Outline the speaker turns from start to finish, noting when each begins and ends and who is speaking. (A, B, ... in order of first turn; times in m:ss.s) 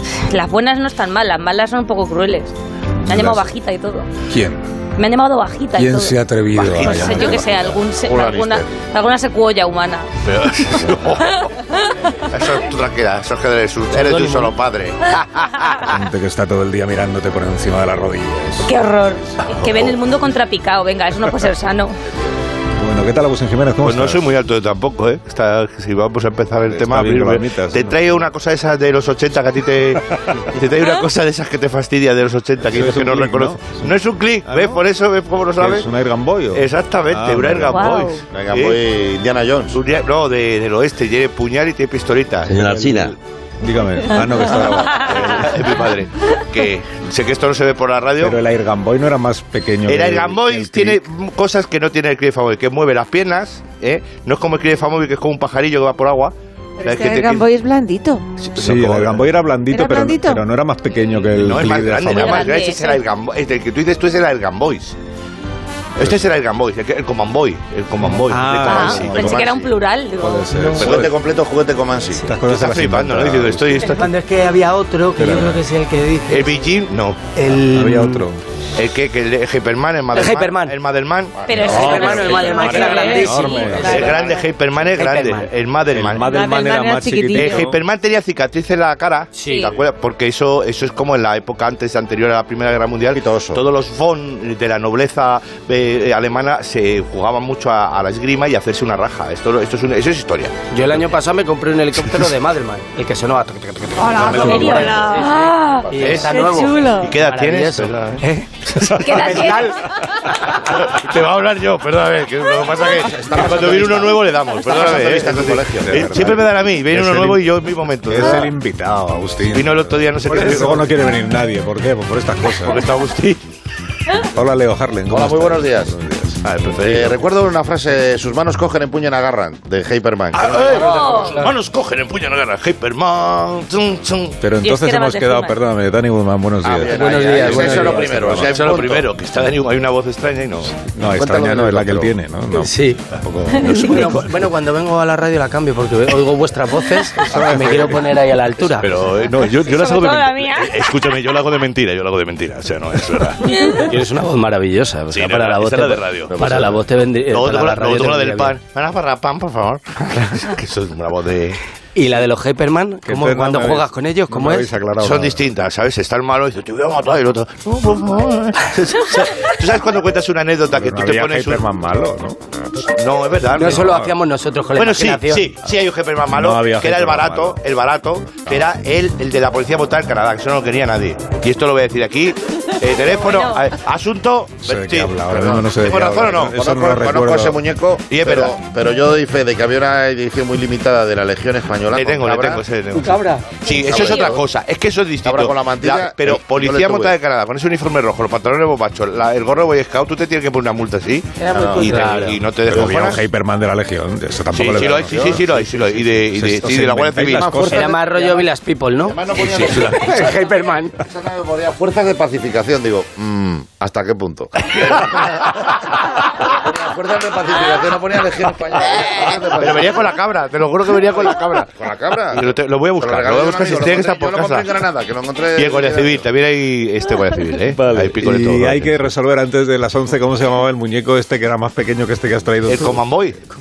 0:00.3-0:02.5 A
0:03.0-0:03.5 B
0:03.1-0:04.1 A
0:04.3-0:04.7 B
0:05.0-0:06.2 A
0:05.8-0:07.4 B
0:06.5-0:07.5 C
0:06.8-0:10.1 A
0:07.3-0:08.7 D
0:10.2-0:11.4 C
0:11.2-0:11.9 A
0:12.3-0:15.8 C
0:15.9-0:18.7 B
0:18.6-0:22.0 A
0:19.4-0:20.0 C
0:22.7-0:24.3 B
0:23.8-0:35.9 C
0:26.7-0:28.2 B
0:32.7-0:34.8 B
0:35.6-0:37.9 B
0:36.5-0:38.8 C
0:37.7-0:38.2 A
0:38.3-0:39.8 D
0:39.7-0:43.2 C
0:42.5-0:43.0 B
0:43.6-0:45.6 B
0:45.0-0:48.4 C
0:48.2-0:51.0 B
0:49.9-0:57.5 C
0:56.8-0:58.2 E
0:58.4-0:59.2 C
0:58.6-1:02.5 B
0:59.7-1:00.4 E
1:01.3-1:05.0 C
1:02.1-1:03.0 A
1:06.0-1:09.2 C
1:06.0-1:06.2 B
1:08.1-1:09.5 B
1:08.7-1:10.5 A
1:08.7-1:09.8 D
1:10.2-1:11.1 B
1:10.7-1:12.3 D
1:10.8-1:11.1 C
1:12.2-1:14.0 B
1:12.5-1:14.1 C
1:13.9-1:16.6 F
1:15.2-1:15.6 B
1:16.3-1:17.2 C
1:17.3-1:18.2 F
1:17.5-1:18.4 B
1:18.7-1:22.1 C
1:20.1-1:20.8 F
1:21.4-1:21.8 D
1:21.4-1:23.8 A
1:21.6-1:25.5 F
1:22.0-1:24.1 B
1:22.5-1:24.4 E
1:23.7-1:26.3 C
1:25.9-1:27.8 B
1:26.2-1:27.7 E
1:27.3-1:40.6 C
1:29.3-1:29.7 F
1:29.4-1:29.7 A
1:33.0-1:33.6 D
1:40.7-1:49.8 F
1:44.0-1:44.4 E
1:44.2-1:45.1 C
1:44.4-1:45.8 A
1:45.9-1:46.2 D
1:46.0-1:48.2 C
1:46.2-1:47.1 E
1:48.9-1:49.8 A
1:50.4-1:58.5 C
1:52.9-1:56.4 D
1:55.8-1:57.5 B
1:58.0-2:02.8 B
1:59.5-2:00.9 C
2:02.5-2:03.4 C
2:04.2-2:06.4 B
2:05.1-2:05.9 D
2:06.4-2:07.2 C
2:06.8-2:11.4 D
2:10.3-2:14.4 C
2:10.8-2:11.3 A
2:14.4-2:18.8 B
2:14.6-2:15.5 A
2:16.6-2:19.1 D
2:16.9-2:18.6 F
2:18.3-2:20.7 C
2:20.8-2:24.2 B
2:21.1-2:22.1 D
2:22.5-2:23.0 F
2:23.6-2:28.9 F
2:27.2-2:28.1 B
2:28.8-2:33.5 C
2:29.6-2:30.8 A
2:33.5-2:33.8 A
2:33.6-2:38.5 F
2:35.1-2:36.7 C
2:36.3-2:36.8 D
2:37.3-2:41.6 C
2:41.9-2:44.7 F
2:43.0-2:45.4 B
2:45.0-2:51.6 C
2:50.7-2:52.4 B
2:53.0-2:53.8 C
2:53.5-2:55.5 F
2:53.6-2:54.1 B
2:54.8-3:06.6 C
2:56.3-2:57.6 B
3:03.1-3:03.7 A
3:04.6-3:07.6 B
3:05.3-3:12.6 D
3:08.1-3:08.5 C
3:11.9-3:23.2 C
3:12.9-3:13.5 F
3:13.7-3:14.4 A
3:13.8-3:14.4 D
3:15.2-3:17.1 D
3:21.5-3:22.4 F
3:21.5-3:21.9 D
3:22.6-3:28.0 B
3:24.5-3:27.6 C
3:25.0-3:25.4 D
3:27.3-3:28.4 D
3:27.7-3:29.2 F
3:29.0-3:30.4 D
3:29.4-3:30.0 C
3:29.8-3:31.0 F
3:31.0-3:40.1 D
3:39.1-3:41.7 C
3:41.6-3:46.3 D
3:42.3-3:44.8 C
3:45.5-3:49.0 C
3:47.6-3:53.0 B
3:52.6-3:53.4 C